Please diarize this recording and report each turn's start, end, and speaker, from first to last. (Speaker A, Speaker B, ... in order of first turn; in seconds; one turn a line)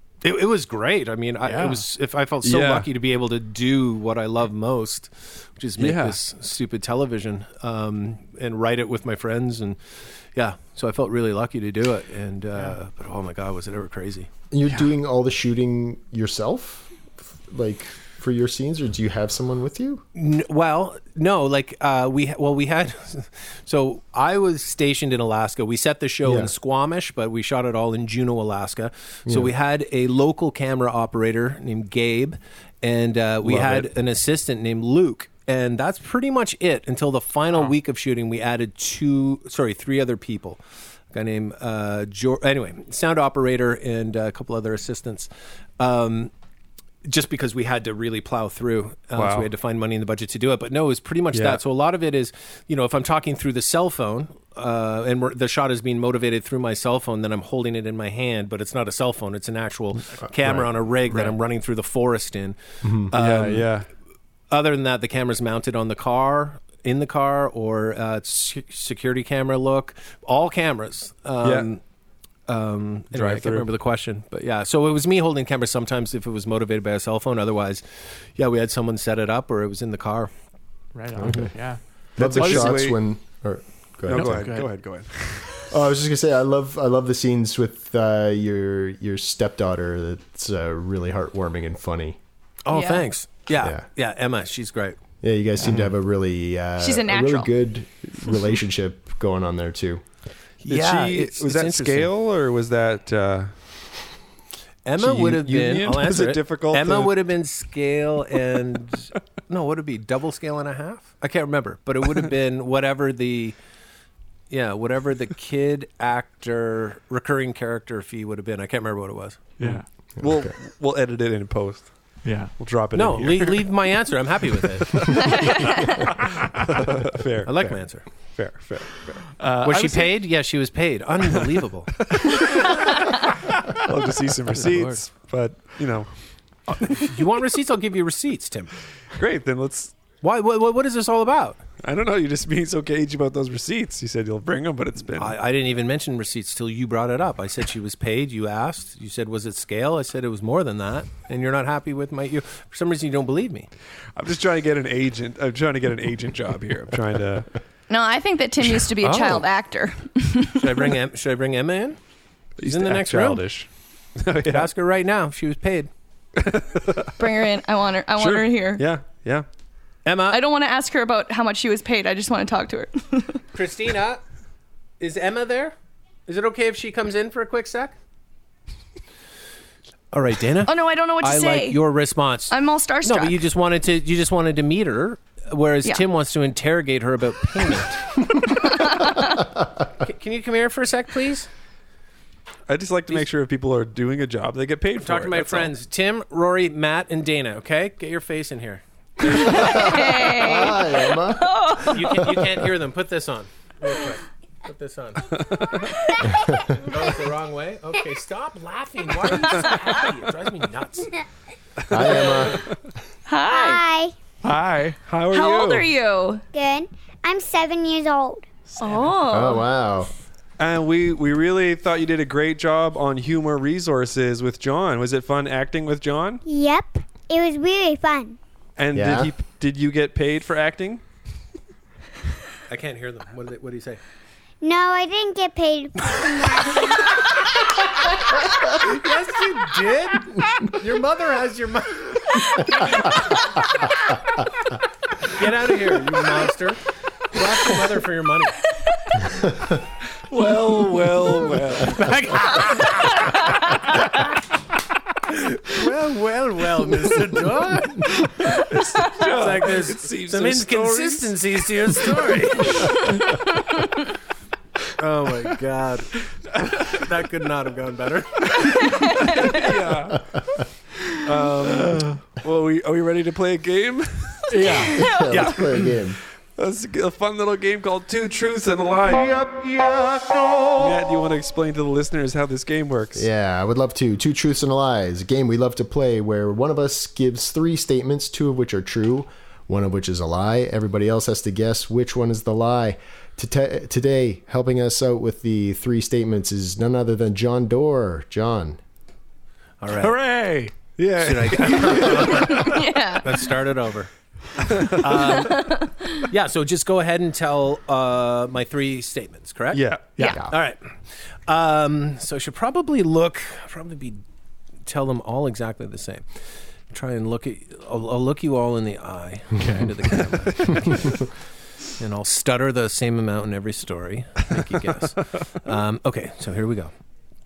Speaker A: 0.2-14.3
Speaker B: 1.4-1.8
Speaker C: 2.4-2.9
Speaker C: 5.8-6.2
Speaker D: 14.5-16.9
Speaker D: 17.5-20.0
Speaker A: 20.1-40.6
Speaker D: 26.2-26.5
Speaker D: 29.3-29.5
Speaker C: 33.4-33.9
Speaker A: 41.1-46.3
Speaker A: 47.0-63.7
Speaker C: 49.1-49.5
Speaker C: 51.3-51.6
Speaker D: 62.8-63.1
Speaker C: 63.1-63.9
Speaker A: 64.5-71.8
Speaker C: 71.4-71.7
Speaker A: 72.5-80.3
Speaker C: 73.1-73.7
Speaker B: 81.0-81.8
Speaker D: 81.2-81.5
Speaker D: 82.2-84.6
Speaker C: 82.2-83.0
Speaker B: 82.3-82.7
Speaker B: 84.1-84.8
Speaker C: 84.1-85.6
Speaker D: 85.7-92.2
Speaker A: 92.6-95.0
Speaker E: 92.7-93.1
Speaker D: 93.6-93.8
Speaker D: 95.2-100.0
Speaker E: 96.8-97.5
Speaker A: 100.6-102.1
Speaker C: 100.6-103.5
Speaker A: 104.8-113.5
Speaker C: 105.0-107.1
Speaker A: 114.5-119.5
Speaker B: 119.6-119.8
Speaker C: 119.6-121.9
Speaker D: 120.2-120.5
Speaker B: 122.2-122.5
Speaker C: 122.6-123.7
Speaker A: 122.9-125.5
Speaker C: 124.9-127.7
Speaker E: 125.2-125.9
Speaker A: 127.5-128.1
Speaker C: 128.3-129.2
Speaker B: 129.4-130.2
Speaker A: 129.6-132.1
Speaker C: 132.0-133.0
Speaker C: 133.7-136.1
Speaker A: 134.6-134.9
Speaker A: 136.9-138.7
Speaker C: 139.2-139.9
Speaker A: 140.2-141.6
Speaker C: 141.8-145.3
Speaker A: 145.2-153.7
Speaker C: 154.2-157.5
Speaker E: 157.9-160.9
Speaker A: 159.0-159.4
Speaker A: 160.6-162.0
Speaker C: 162.6-164.7
Speaker A: 162.6-163.4
Speaker A: 164.4-165.9
Speaker C: 166.4-167.1
Speaker E: 167.2-168.8
Speaker C: 168.2-169.4
Speaker A: 170.1-170.4
Speaker E: 170.3-173.4
Speaker A: 173.6-174.2
Speaker A: 175.0-175.7
Speaker A: 176.3-177.9
Speaker A: 180.1-188.2
Speaker E: 180.7-181.8
Speaker E: 182.5-183.4
Speaker E: 188.4-189.5
Speaker A: 190.0-191.5
Speaker C: 192.7-195.7
Speaker A: 195.0-200.0
Speaker E: 199.2-202.5
Speaker D: 199.4-201.9
Speaker A: 201.9-205.4
Speaker C: 205.4-205.9
Speaker E: 205.9-206.6
Speaker A: 206.7-211.2
Speaker D: 211.9-212.7
Speaker A: 211.9-212.5
Speaker E: 213.3-213.8
Speaker F: 213.4-214.1
Speaker B: 214.4-215.0
Speaker C: 215.1-215.9
Speaker E: 215.3-216.4
Speaker F: 216.5-218.5
Speaker E: 218.8-219.6
Speaker D: 219.3-220.1
Speaker C: 220.6-226.4
Speaker F: 226.4-228.4
Speaker C: 228.8-231.0
Speaker D: 228.9-229.3
Speaker A: 232.7-234.0
Speaker F: 234.6-237.2
Speaker A: 238.6-243.4
Speaker A: 245.2-248.6
Speaker C: 250.3-252.2
Speaker B: 252.0-253.1
Speaker A: 255.6-258.1
Speaker C: 258.7-262.2
Speaker A: 259.1-263.0
Speaker A: 264.9-269.1
Speaker E: 268.6-269.6
Speaker C: 269.2-270.4
Speaker C: 271.2-274.8
Speaker B: 274.5-275.2
Speaker E: 274.6-275.5
Speaker D: 274.9-276.2
Speaker C: 276.6-280.0
Speaker C: 280.7-283.3
Speaker D: 283.1-298.8
Speaker A: 299.8-300.2
Speaker B: 300.0-300.8
Speaker C: 301.0-302.5
Speaker A: 301.2-304.1
Speaker E: 302.5-303.3
Speaker C: 304.6-305.1
Speaker A: 305.0-305.6
Speaker B: 305.0-305.4
Speaker E: 305.1-306.2
Speaker A: 306.3-309.8
Speaker C: 309.7-310.1
Speaker A: 310.5-310.9
Speaker A: 311.5-314.2
Speaker A: 314.9-316.4
Speaker A: 316.9-321.3
Speaker B: 319.6-319.9
Speaker A: 322.0-326.9